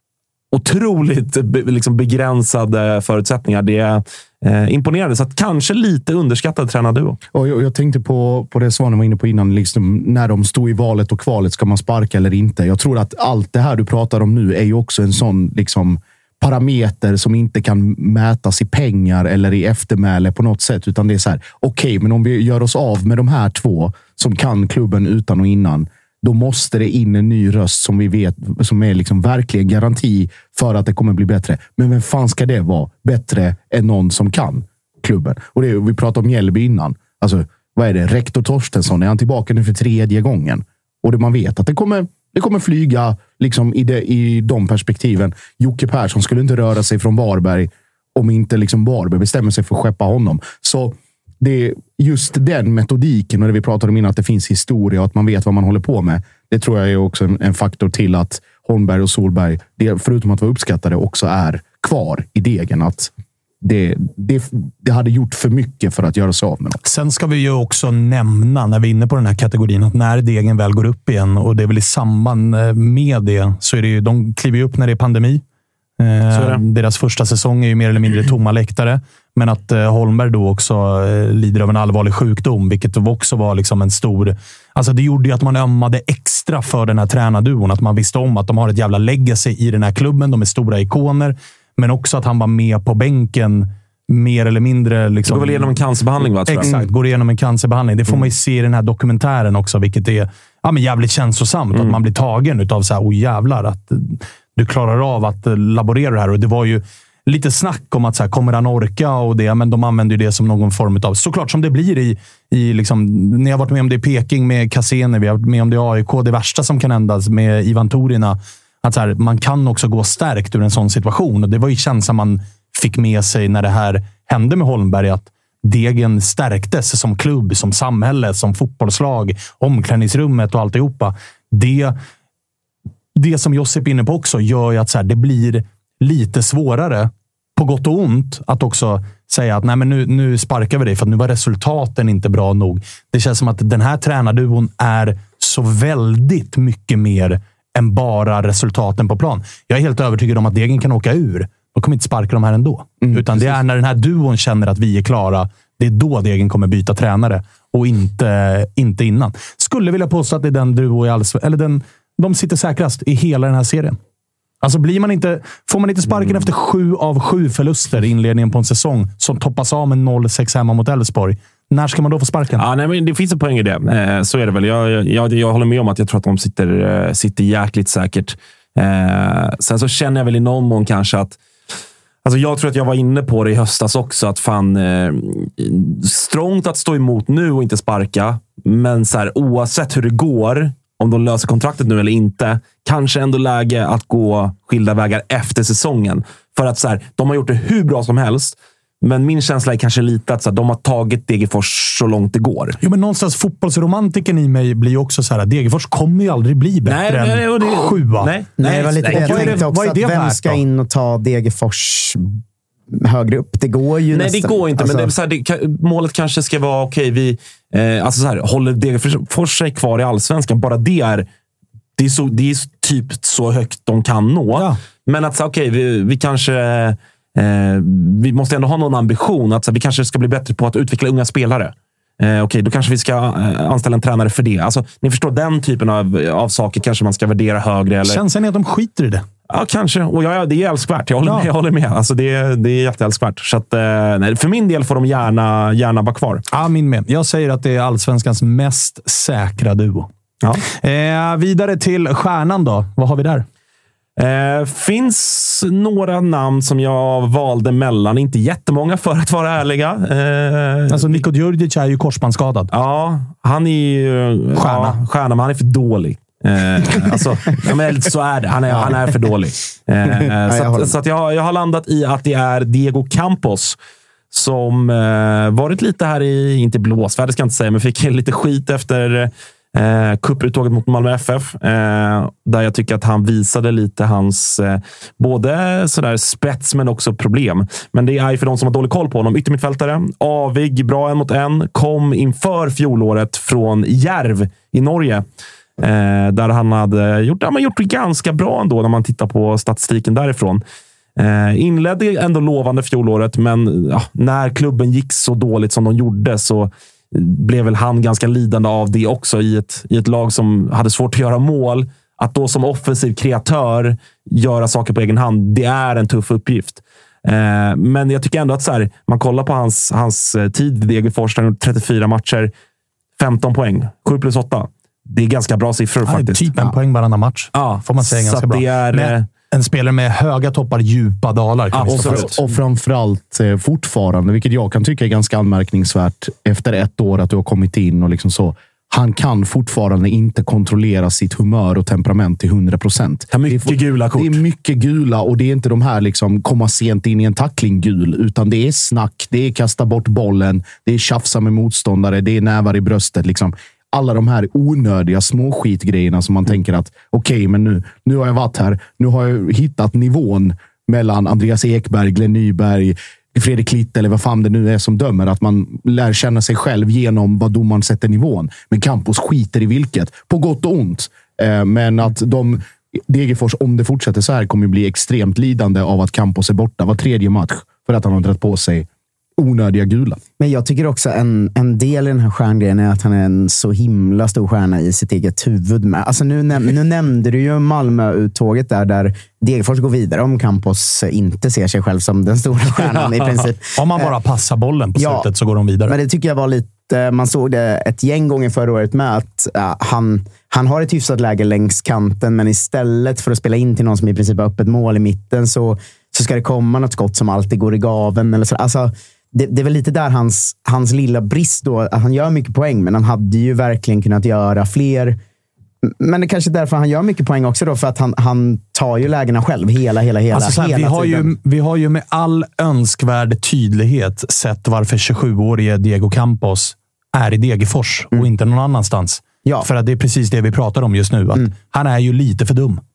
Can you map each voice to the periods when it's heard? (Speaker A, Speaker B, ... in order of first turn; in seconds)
Speaker A: 0.5-7.2, 76.3-76.6, 95.3-96.7, 166.1-166.5, 172.6-181.4, 182.2-202.8, 206.9-209.7, 214.1-221.2, 222.0-238.2, 239.5-246.4, 254.2-261.2, 262.7-273.8, 274.3-295.2, 295.8-300.6, 301.2-322.5, 323.2-326.5, 327.5-329.2, 331.7-332.3, 343.3-344.4, 392.9-393.3
Speaker B: 7.3-63.1, 63.6-66.8, 153.0-153.6, 331.9-380.2
Speaker C: 66.8-75.4, 76.0-95.8, 96.5-131.9, 133.1-164.0, 164.6-172.6, 202.8-210.6, 238.0-239.2, 241.2-241.5, 246.5-250.1, 250.7-253.5, 260.9-262.7, 264.6-265.0, 326.1-332.3, 393.8-396.0, 420.3-432.8
Speaker D: 208.6-212.4, 213.0-215.1, 268.7-269.0, 270.5-270.9, 380.4-394.1, 395.0-395.3, 395.9-415.2, 415.8-421.3